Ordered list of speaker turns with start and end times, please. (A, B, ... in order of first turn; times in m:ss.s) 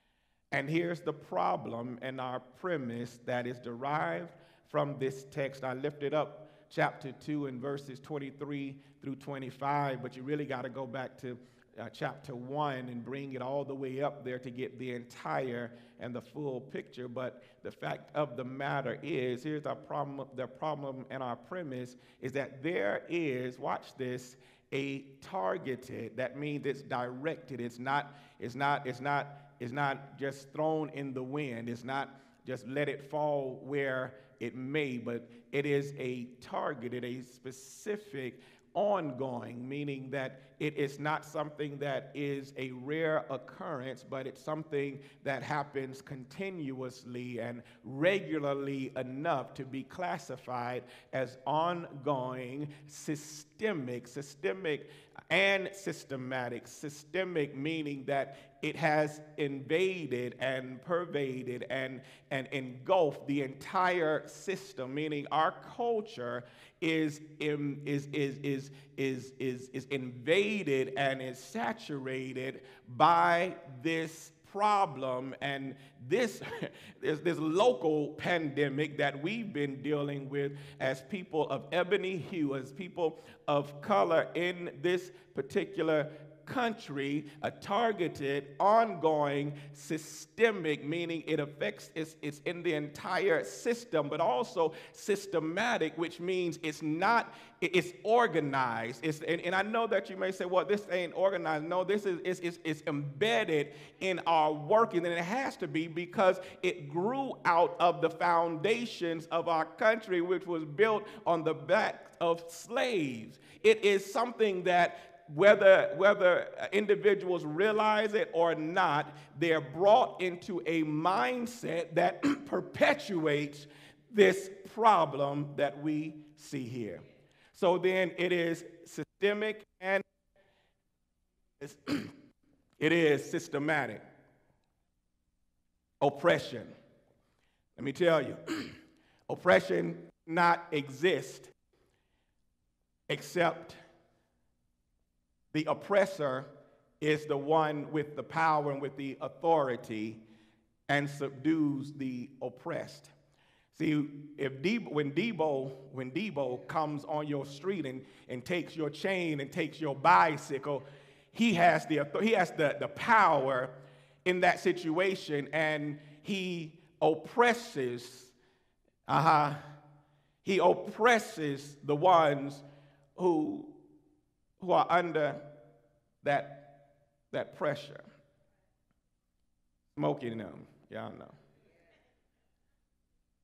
0:00.5-2:10.0 A
2:11.6-2:12.1 A
2:12.8-2:14.0 A
2:16.0-2:16.7 A
2:17.8-2:18.7 A
2:19.3-2:21.5 A
2:23.1-2:23.8 A
2:25.5-2:26.5 A
2:27.0-2:30.2 A
2:30.9-2:33.1 A
2:33.7-2:48.3 A
2:49.1-2:49.6 A
2:50.4-2:52.6 A
2:53.2-2:53.8 A
2:54.6-2:55.5 A
2:56.2-2:58.0 A
2:59.9-3:01.4 A